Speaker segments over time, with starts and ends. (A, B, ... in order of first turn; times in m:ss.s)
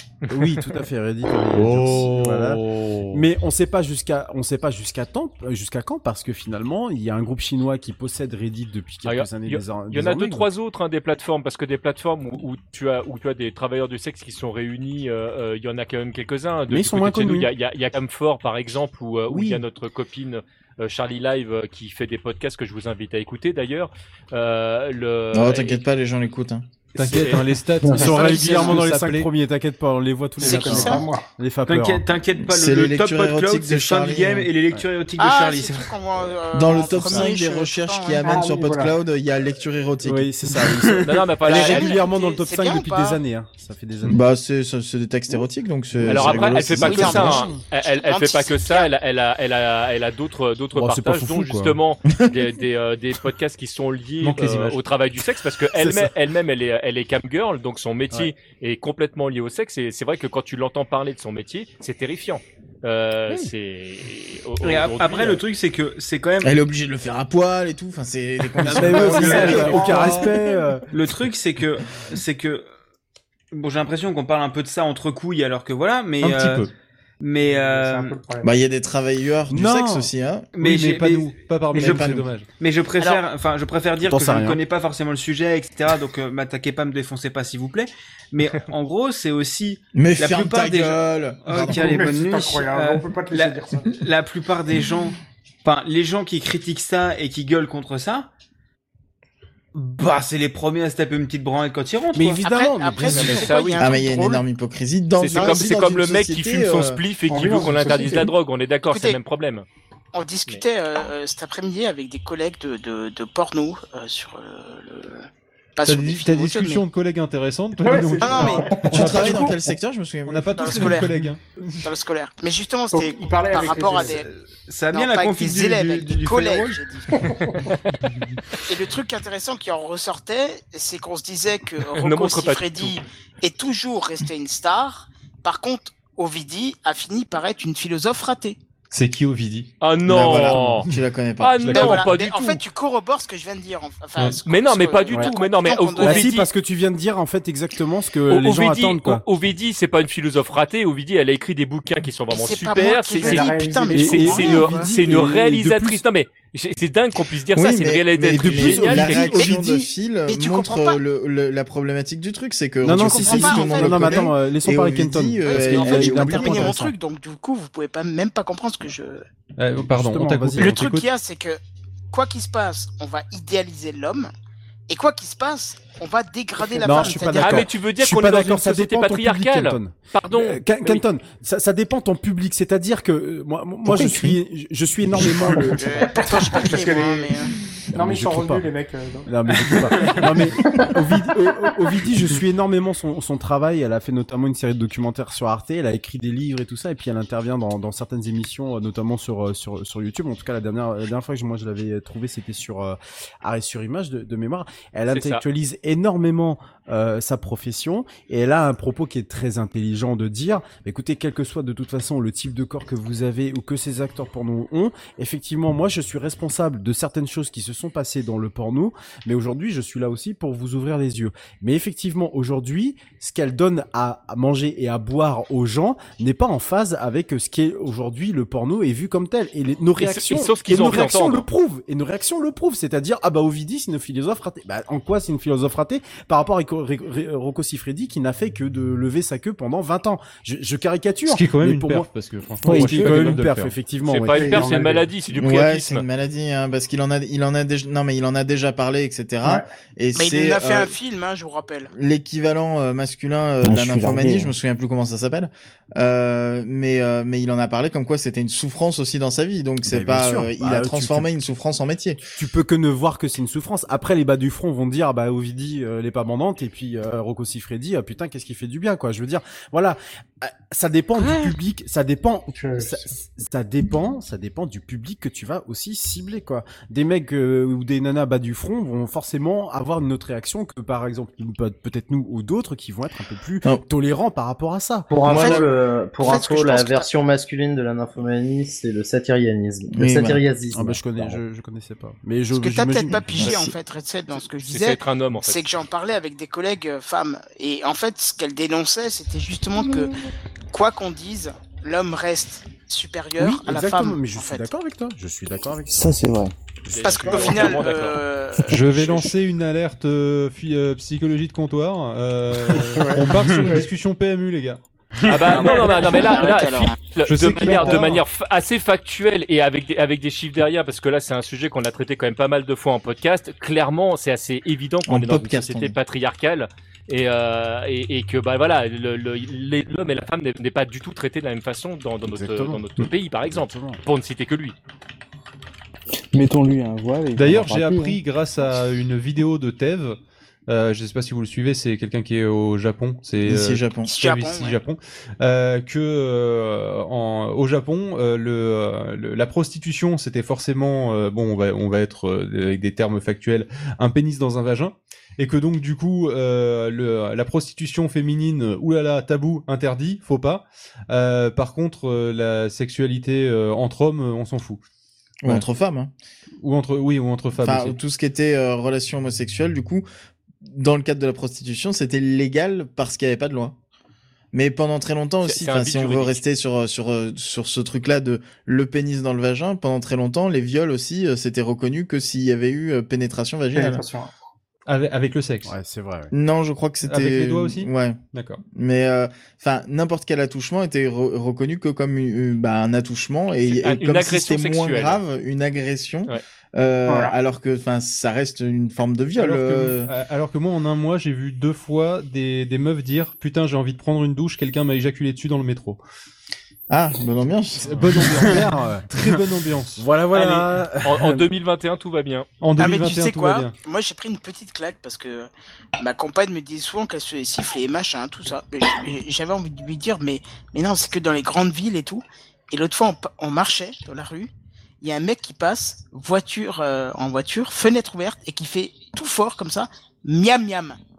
0:00.2-0:00.7 A
0:00.3-0:10.5 B
0:01.5-0:03.2 C
0:09.0-0:25.8 A
0:16.7-0:17.5 B
0:19.3-0:19.6 B
0:25.3-0:26.7 D
0:27.0-0:29.3 C
0:27.1-0:27.4 A
0:27.1-0:32.0 B
0:28.2-0:28.8 E
0:30.4-0:31.1 E
0:30.4-0:31.3 F
0:31.7-0:36.3 G
0:32.4-0:34.5 D
0:35.2-0:38.4 E
0:36.5-0:40.3 D
0:38.2-0:39.0 F
0:40.0-0:44.2 B
0:40.7-0:41.0 G
0:41.0-0:42.0 A
0:41.4-0:43.2 E
0:44.1-0:47.4 D
0:46.0-1:05.4 A
0:46.1-0:47.6 B
0:46.8-0:48.9 E
0:50.7-0:51.8 B
0:54.2-0:54.8 C
0:55.8-0:56.0 B
1:04.6-1:06.5 G
1:06.4-1:10.1 D
1:08.6-1:10.9 B
1:08.6-1:09.7 G
1:08.9-1:10.3 C
1:09.1-1:10.3 F
1:10.9-1:12.6 G
1:13.5-1:16.6 G
1:16.2-1:16.7 C
1:17.2-1:18.2 G
1:17.4-1:18.5 F
1:18.4-1:20.5 D
1:19.5-1:20.1 B
1:20.6-1:38.3 G
1:20.6-1:22.5 C
1:21.7-1:22.3 D
1:24.0-1:24.6 B
1:29.9-1:31.9 D
1:31.5-1:34.0 F
1:39.8-1:42.4 G
1:42.1-1:43.8 B
1:42.4-1:44.4 E
1:43.1-1:44.0 A
1:43.8-1:47.0 D
1:45.2-1:49.6 A
1:47.3-1:48.3 F
1:48.9-1:49.2 E
1:50.1-1:56.8 E
1:55.8-1:59.5 C
1:57.8-1:59.7 F
1:58.2-1:59.4 E
1:58.8-2:01.0 D
2:00.2-2:01.9 C
2:00.6-2:01.1 E
2:01.8-2:04.2 E
2:02.9-2:04.2 F
2:04.1-2:06.8 G
2:04.9-2:07.2 E
2:07.1-2:07.6 F
2:07.3-2:07.8 A
2:08.6-2:18.6 E
2:11.9-2:13.0 A
2:18.9-2:19.7 C
2:19.8-2:20.8 A
2:20.1-2:22.0 D
2:20.2-2:20.9 C
2:21.4-2:22.6 A
2:21.7-2:26.4 E
2:24.4-2:26.4 A
2:25.1-2:25.3 B
2:26.0-2:29.2 B
2:28.3-2:39.4 A
2:32.3-2:34.9 E
2:33.2-2:34.6 F
2:33.9-2:36.0 B
2:37.5-2:46.8 D
2:38.2-2:39.5 B
2:39.2-2:41.0 E
2:42.8-2:46.9 B
2:43.0-2:44.3 E
2:45.4-2:49.2 E
2:49.6-2:51.1 C
2:49.8-2:50.8 B
2:50.6-2:51.6 E
2:52.1-2:54.3 E
2:54.9-2:57.7 E
2:56.7-3:06.2 B
2:57.4-3:01.0 A
3:03.9-3:04.4 D
3:05.2-3:07.4 F
3:05.6-3:07.5 E
3:07.9-3:08.7 B
3:07.9-3:10.9 F
3:09.2-4:04.8 B
3:25.1-3:25.4 A
3:50.0-3:51.4 A
4:01.2-4:03.8 C
4:02.7-4:03.3 H
4:02.8-4:03.1 A
4:04.0-4:06.0 A
4:04.3-4:05.0 F
4:05.4-4:10.9 D
4:10.1-4:11.9 E
4:11.9-4:22.2 D
4:13.6-4:14.5 H
4:19.8-4:21.3 B
4:22.4-4:45.1 B
4:32.5-4:33.1 F
4:45.1-4:51.4 I
4:45.2-4:45.6 D
4:45.2-4:47.1 E
4:49.9-4:50.4 D
4:50.7-4:53.5 B
4:52.5-5:00.1 E
4:54.6-4:55.6 A
5:00.7-5:04.7 E
5:03.4-5:06.2 B
5:05.9-5:06.5 H
5:06.9-5:08.2 A
5:06.9-5:07.9 B
5:07.0-5:09.3 E
5:08.6-5:15.9 C
5:13.0-5:13.9 F
5:15.2-5:15.7 G
5:15.3-5:34.8 A
5:15.5-5:17.0 E
5:17.2-5:18.2 C
5:25.0-5:26.0 D
5:32.2-5:32.8 B
5:33.4-5:34.0 B
5:36.3-5:38.2 H
5:37.3-6:04.8 C
5:43.4-5:44.1 D
5:44.0-5:44.8 E
6:05.4-6:06.1 D
6:06.6-6:08.0 C
6:07.6-6:10.0 D
6:10.6-6:13.8 D
6:14.5-6:24.0 D
6:15.4-6:16.4 A
6:23.7-6:24.3 F
6:24.9-6:25.7 C
6:25.6-6:26.3 B
6:26.3-6:28.2 D
6:27.0-6:28.6 C
6:28.7-6:40.1 D
6:33.7-6:35.2 A
6:37.0-6:37.4 F
6:39.4-6:46.0 C
6:46.9-6:48.0 D
6:47.8-6:50.1 C
6:47.9-6:49.4 B
6:50.0-6:51.5 B
6:50.3-6:52.5 A
6:52.6-6:53.7 C
6:52.8-7:04.5 E
7:05.0-7:11.0 E